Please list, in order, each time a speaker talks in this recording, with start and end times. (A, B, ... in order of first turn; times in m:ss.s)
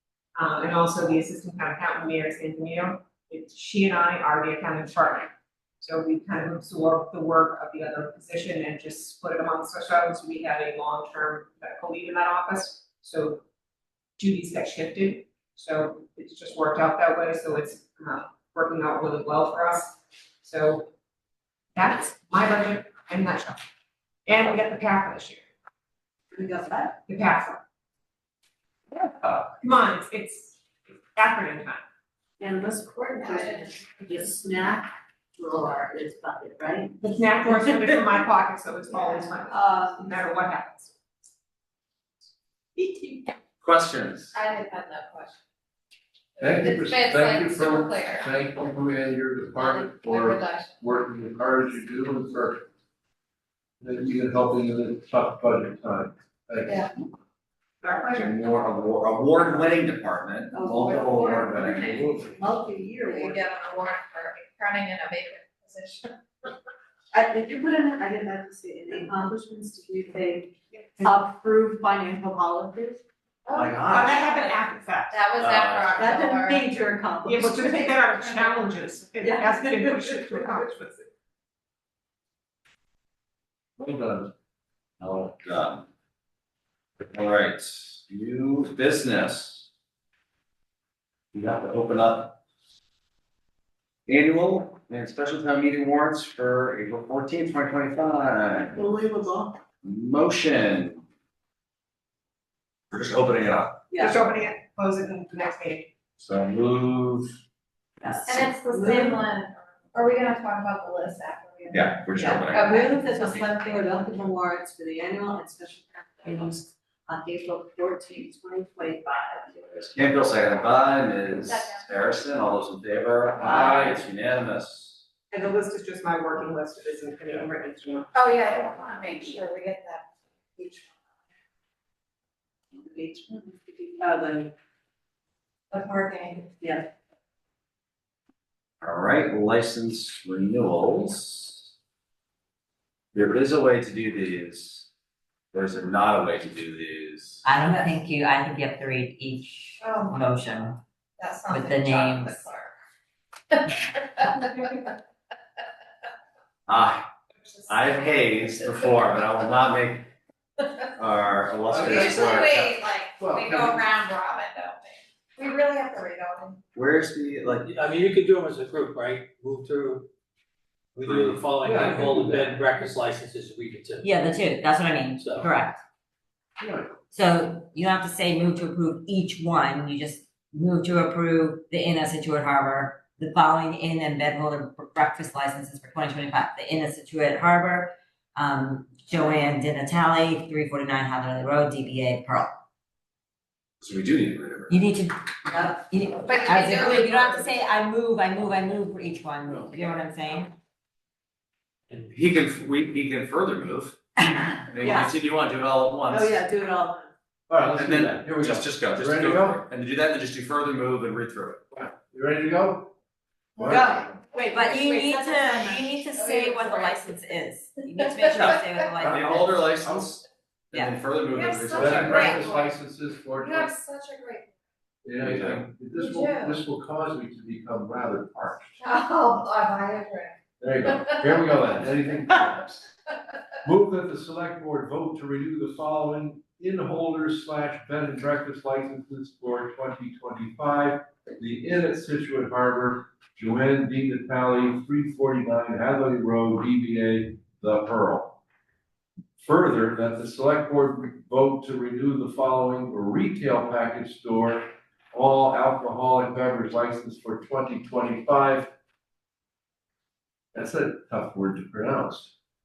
0:00.3-0:13.4 A
0:14.2-0:20.9 A
0:21.8-0:23.6 A
0:24.2-0:25.4 A
0:26.3-0:27.0 B
0:27.1-0:27.6 A
0:29.6-0:30.6 A
0:31.1-0:31.8 A
0:32.4-0:38.0 B
0:37.0-0:40.9 A
0:38.9-0:40.1 B
0:43.6-0:44.3 C
0:44.3-0:45.4 D
0:46.4-0:48.3 D
0:46.4-0:52.6 E
0:49.6-0:50.8 D
0:53.8-0:56.9 E
0:57.8-0:58.3 A
0:58.2-1:02.2 C
1:00.5-1:01.6 B
1:00.9-1:02.4 E
1:01.2-1:02.2 D
1:02.3-1:03.4 B
1:03.0-1:06.1 D
1:07.1-1:13.0 B
1:10.7-1:11.1 A
1:13.4-1:14.3 D
1:13.5-1:14.2 C
1:13.9-1:15.2 A
1:15.1-1:16.7 D
1:15.4-1:16.1 C
1:16.0-1:18.4 B
1:17.2-1:21.1 A
1:19.2-1:20.6 B
1:23.8-1:24.3 E
1:25.0-1:25.8 C
1:27.1-1:29.7 C
1:31.3-1:32.4 C
1:34.1-1:38.8 C
1:38.6-1:39.6 B
1:39.8-1:41.0 C
1:42.9-1:43.8 C
1:43.9-1:44.2 B
1:44.0-1:45.9 A
1:46.2-1:47.3 C
1:48.0-1:49.3 B
1:48.2-1:53.2 D
1:51.7-1:52.7 C
1:52.3-1:59.8 B
1:59.8-2:05.0 C
2:01.4-2:01.9 D
2:03.4-2:03.9 B
2:03.4-2:04.0 E
2:05.3-2:08.1 A
2:08.1-2:10.0 D
2:12.7-2:14.5 B
2:15.7-2:16.5 D
2:16.6-2:16.9 B
2:18.8-2:21.7 C
2:23.1-2:24.9 C
2:25.5-2:27.4 C
2:27.4-2:30.8 F
2:29.8-2:30.2 D
2:31.2-2:32.7 D
2:31.5-2:32.4 F
2:33.5-2:34.9 D
2:36.7-2:37.1 C
2:37.4-2:39.6 D
2:37.7-2:40.1 C
2:41.0-2:42.8 C
2:41.7-2:46.6 D
2:41.7-2:42.4 E
2:43.2-2:43.9 E
2:46.7-2:47.7 C
2:47.7-2:50.0 G
2:51.0-2:54.0 G
2:51.1-2:52.6 E
2:54.0-2:55.8 F
2:55.2-2:55.5 G
2:56.6-2:56.9 E
2:57.1-3:12.5 F
3:13.8-3:14.8 C
3:14.7-3:20.5 F
3:16.3-3:17.5 D
3:21.9-3:24.0 C
3:24.2-3:24.7 F
3:24.7-3:26.3 C
3:24.8-3:25.1 B
3:26.1-3:27.1 B
3:27.5-3:29.6 E
3:27.8-3:31.6 C
3:31.7-3:32.9 E
3:33.6-3:34.2 E
3:33.6-3:34.9 B
3:34.5-3:39.6 F
3:34.7-3:37.0 D
3:38.3-3:38.6 D
3:38.3-3:42.4 C
3:39.0-3:40.1 E
3:41.3-3:42.7 D
3:41.7-3:43.7 E
3:43.4-3:44.5 D
3:45.0-3:48.7 E
3:45.2-3:45.6 C
3:46.0-3:46.6 D
3:48.8-3:50.3 D
3:50.6-3:52.9 E
3:53.6-4:08.4 E
4:09.4-4:18.7 E
4:20.5-4:22.3 E